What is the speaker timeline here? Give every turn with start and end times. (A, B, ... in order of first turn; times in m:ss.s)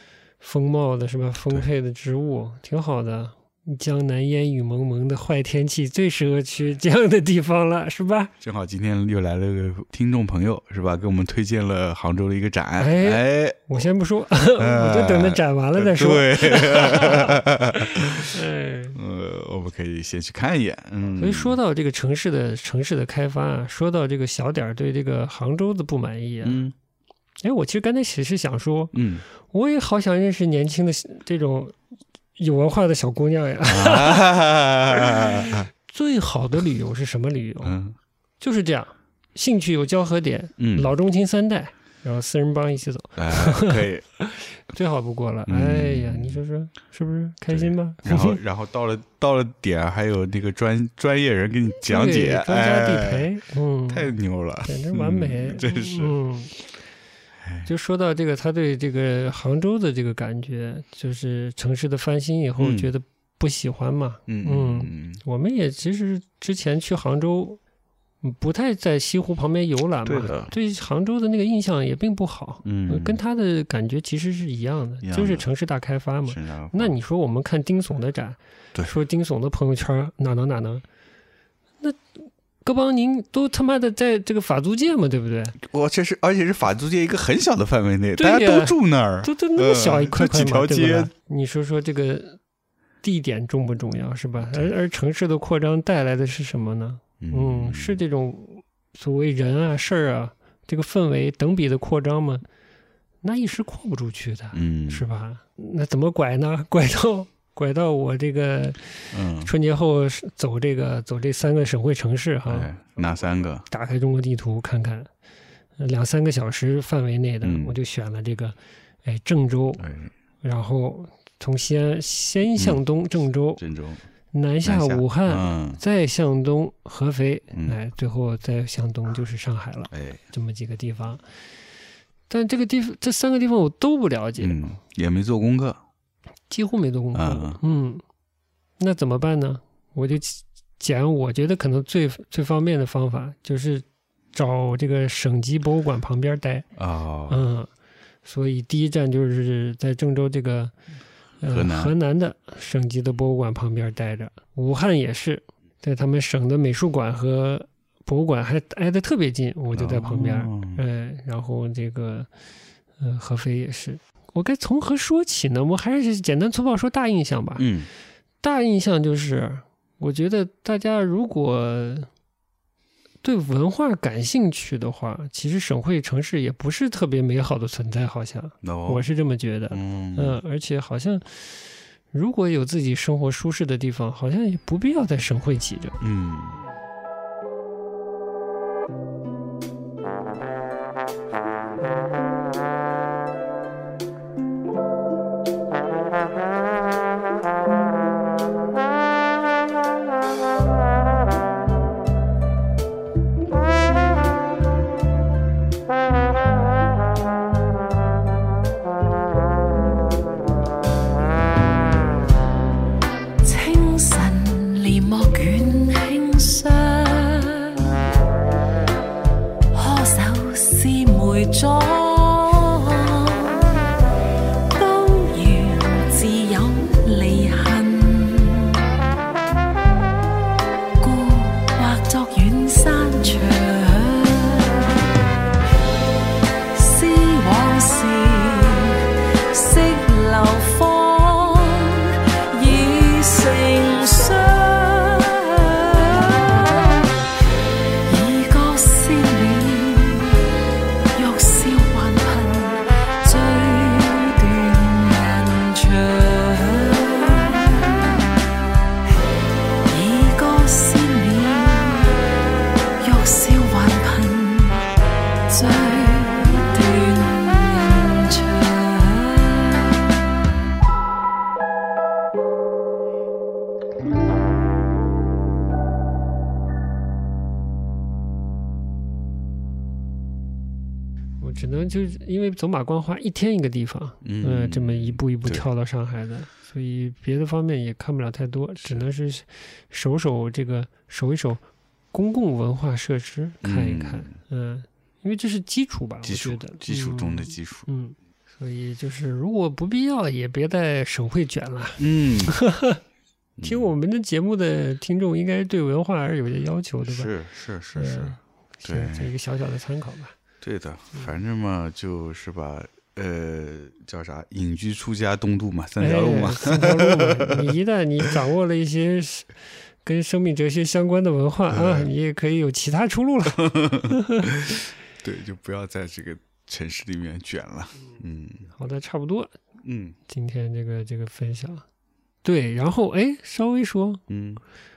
0:00.4-0:08.3 A
0:08.4-0:13.8 B
0:12.8-0:19.0 A
0:14.6-0:18.4 B
0:19.0-0:21.6 B
0:21.2-0:26.7 A
0:26.4-0:26.7 B
0:27.4-0:31.8 A
0:28.9-0:29.2 B
0:32.4-0:37.8 A
0:33.7-0:35.7 B
0:37.6-0:38.0 B
0:38.4-0:48.4 A
0:40.6-0:40.9 B
0:43.2-0:44.0 B
0:45.5-0:46.4 B
0:47.5-0:53.3 B
0:51.8-0:54.1 A
0:53.9-0:56.1 B
0:54.6-0:56.5 A
0:57.4-0:57.7 B
0:57.7-1:07.6 A
1:02.6-1:02.9 B
1:04.3-1:05.2 B
1:08.2-1:20.8 A
1:10.1-1:10.5 B
1:12.6-1:13.2 B
1:15.0-1:15.5 B
1:16.3-1:17.0 B
1:21.8-1:25.6 A
1:25.6-1:31.1 B
1:28.2-1:32.4 A
1:33.0-1:42.5 A
1:34.4-1:34.7 B
1:37.2-1:38.0 B
1:43.2-1:52.7 A
1:44.5-1:45.0 B
1:49.1-1:49.5 B
1:52.5-1:53.7 B
1:53.7-1:55.1 A
1:55.8-1:59.8 A
1:57.4-1:57.8 B
1:59.8-2:00.1 B
2:00.4-2:03.6 A
2:02.5-2:02.8 B
2:03.6-2:04.0 B
2:04.3-2:11.2 A
2:04.6-2:05.8 B
2:09.9-2:10.2 B
2:12.3-2:14.6 A
2:14.4-2:15.8 B
2:16.5-2:18.0 A
2:17.1-2:17.6 B
2:18.8-2:26.7 A
2:26.8-2:27.4 B
2:27.3-2:27.7 A
2:28.2-2:30.8 A
2:31.4-2:42.3 A
2:31.5-2:31.9 B
2:39.7-2:40.8 B
2:43.0-2:47.7 A
2:47.6-2:47.9 B
2:48.4-2:52.1 A
2:53.2-3:06.0 A
2:58.6-2:59.1 B
2:59.7-3:00.4 B
3:06.0-3:06.6 B
3:33.4-3:37.8 C
3:39.7-3:43.6 C
3:44.7-3:48.8 C
3:51.0-3:54.9 C
3:56.7-4:07.1 C
4:08.1-4:10.4 C
4:11.2-4:18.1 C
4:19.9-4:22.1 C
4:23.0-4:24.9 C
4:25.5-4:30.0 C
4:41.4-4:51.6 A
4:44.2-4:45.7 B
4:52.1-5:03.0 A
4:53.6-4:54.4 B
4:56.2-4:57.9 B
5:02.0-5:02.6 B
5:03.6-5:03.9 B
5:03.6-5:07.3 A
5:07.1-5:09.3 B
5:08.0-5:10.3 A
5:10.6-5:17.8 B
5:16.0-5:24.5 A
5:21.7-5:22.1 B
5:23.6-5:28.7 B
5:28.8-5:29.5 A
5:29.8-5:30.2 B
5:30.3-5:31.8 A
5:32.4-5:34.2 A
5:34.3-5:34.6 B